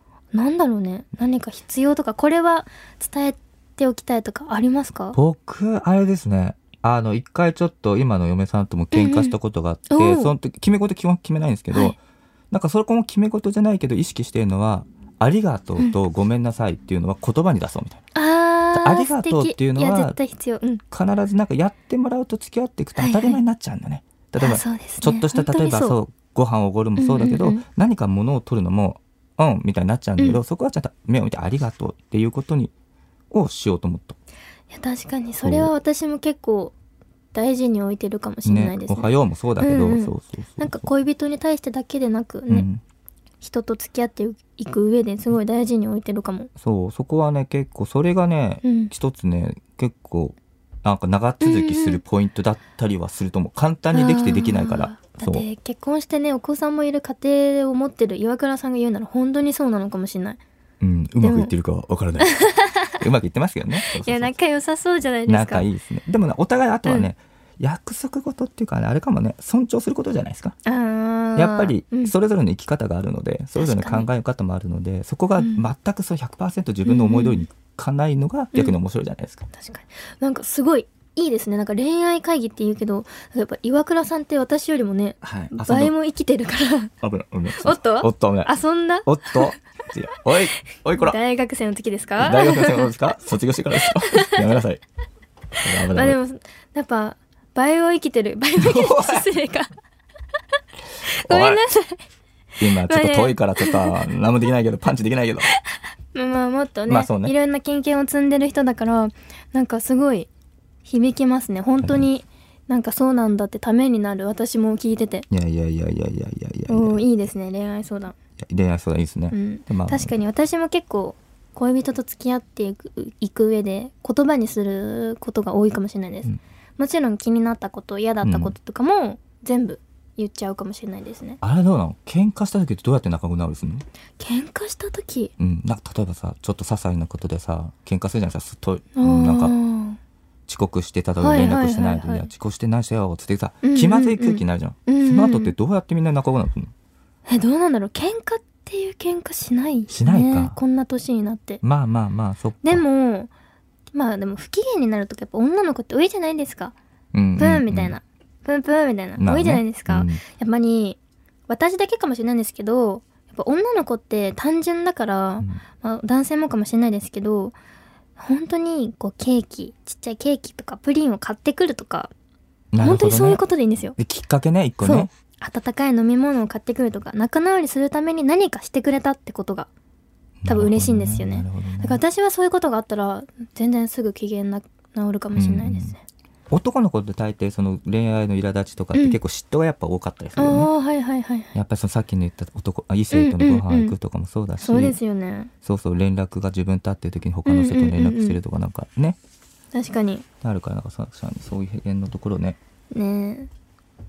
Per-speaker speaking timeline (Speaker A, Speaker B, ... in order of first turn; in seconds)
Speaker A: 0.3-5.2, 8.9-9.4, 9.9-10.3, 18.1-20.8, 23.0-23.4, 24.4-26.0, 27.0-27.6, 34.7-36.7, 37.3-42.7, 43.4-46.5, 48.6-48.9, 51.4-52.0, 53.9-60.4, 61.2-61.5, 62.2-63.0, 63.8-65.7, 70.7-72.1, 73.6-74.1, 75.4-75.7, 76.8-77.5, 79.5-86.9, 87.6-89.5, 91.0-92.9, 94.1-94.4, 95.8-99.7, 101.0-102.0, 102.7-103.9, 105.7-110.3, 110.8-115.3, 116.7-118.2, 119.3-131.4, 134.2-135.3, 139.0-140.0, 141.2-142.3, 143.6-145.5, 147.3-151.6, 152.6-153.3, 153.9-156.7, 157.4-167.6, 168.2-172.1, 172.8-174.0, 174.8-179.7, 180.5-186.0, 188.9-189.2, 190.4-191.6, 193.1-193.9, 194.6-195.5, 197.5-198.4, 199.7-200.2, 202.9-203.5
Speaker B: 5.1-12.0, 12.5-18.0, 18.7-20.2, 20.9-32.7, 33.3-34.2, 35.4-35.7, 38.5-40.8, 42.5-42.8, 46.6-55.5, 60.8-62.4, 62.9-64.3, 65.3-70.6, 71.4-79.5, 85.2-85.9, 87.0-88.5, 89.1-91.2, 92.2-94.8, 95.6-96.2, 98.6-99.3, 101.2-101.6, 102.6-105.5, 106.9-107.3, 115.3-117.0, 118.4-120.1, 128.2-128.5, 131.4-133.8, 135.4-139.5, 140.5-146.7, 149.9-150.6, 151.6-152.8, 157.1-158.0, 159.2-160.2, 172.7-173.4, 174.0-175.1, 180.4-182.0, 185.3-185.9, 186.5-190.7, 191.6-195.0, 195.6-199.2, 200.4-202.6